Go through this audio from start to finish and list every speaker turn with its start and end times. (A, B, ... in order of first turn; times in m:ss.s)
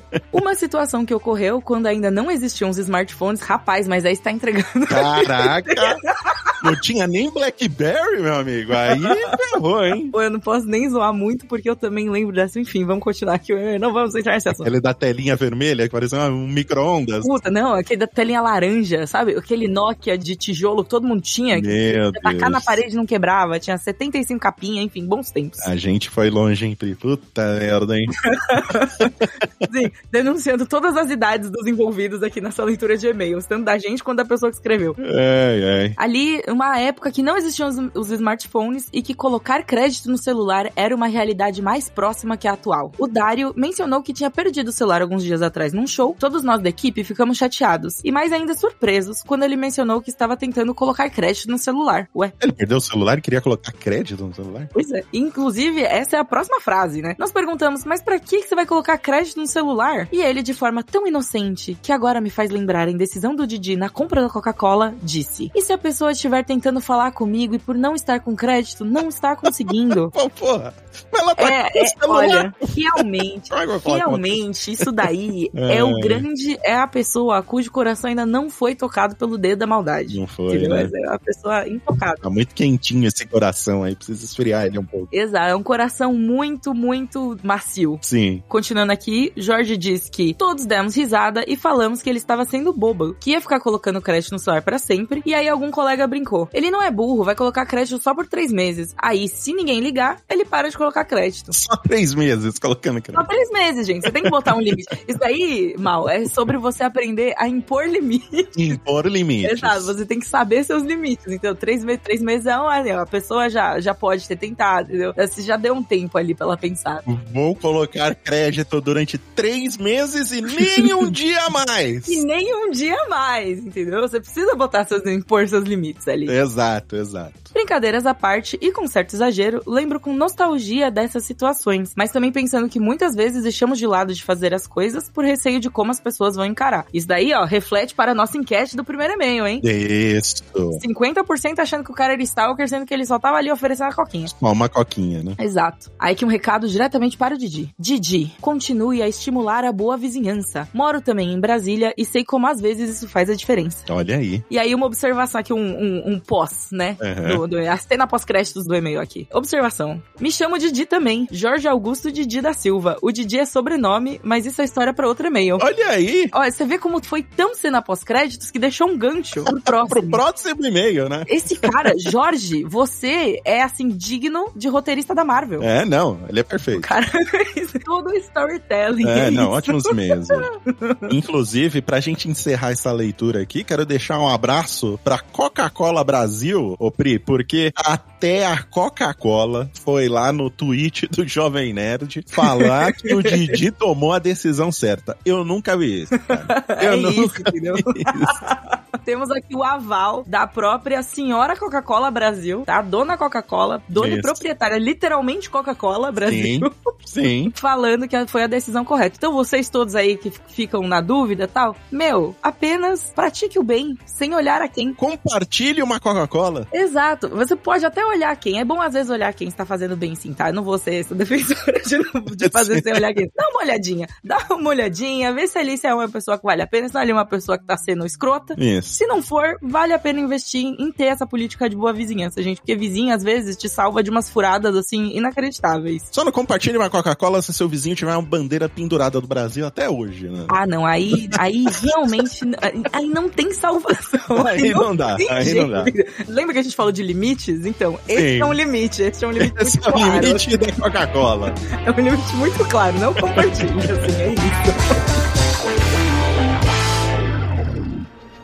0:00.3-0:05.8 A
0:04.9-0:06.0 B
0:06.6-0:10.1 B
0:10.1-0:14.7 A
0:14.6-0:17.3 B
0:17.2-0:25.7 A
0:21.5-0:22.8 B
0:25.6-0:28.1 B
0:28.3-0:29.1 A
0:29.6-0:35.0 A
0:35.0-0:36.0 B
0:36.0-0:52.3 A
0:52.4-0:54.7 B
0:54.7-1:10.1 A
1:09.9-1:14.9 B
1:11.4-1:22.2 A
1:15.5-1:16.2 B
1:20.1-1:20.9 B
1:22.2-1:25.1 B
1:25.1-1:41.6 A
1:28.0-1:28.4 B
1:41.5-1:43.3 B
1:43.1-1:48.6 A
1:48.6-1:49.9 B
1:49.4-1:57.0 A
1:57.0-2:02.2 B
2:02.1-2:06.3 A
2:06.2-2:07.5 B
2:07.5-2:19.6 A
2:19.6-2:20.8 B
2:20.7-2:24.3 A
2:24.2-2:25.4 B
2:25.4-2:33.9 A
2:33.9-2:34.4 B
2:34.5-2:45.6 A
2:37.0-2:37.4 B
2:45.6-2:46.3 B
2:46.3-2:50.2 A
2:49.5-2:51.7 B
2:51.3-2:55.7 A
2:55.6-2:56.9 B
2:56.8-3:00.0 A
2:59.0-3:00.5 B
3:00.7-3:01.0 A
3:01.1-3:18.4 B
3:12.4-3:13.5 A
3:16.5-3:26.7 A
3:23.9-3:24.4 B
3:26.2-3:27.5 B
3:27.5-3:35.0 A
3:35.0-3:36.7 B
3:36.7-3:56.1 A
3:42.4-3:43.0 B
3:48.6-3:49.0 B
3:56.1-4:00.6 B
4:00.5-4:10.4 A
4:01.1-4:02.2 B
4:04.4-4:05.9 B
4:08.1-4:08.6 B
4:09.4-4:11.6 B
4:11.8-4:14.8 A
4:13.4-4:13.6 B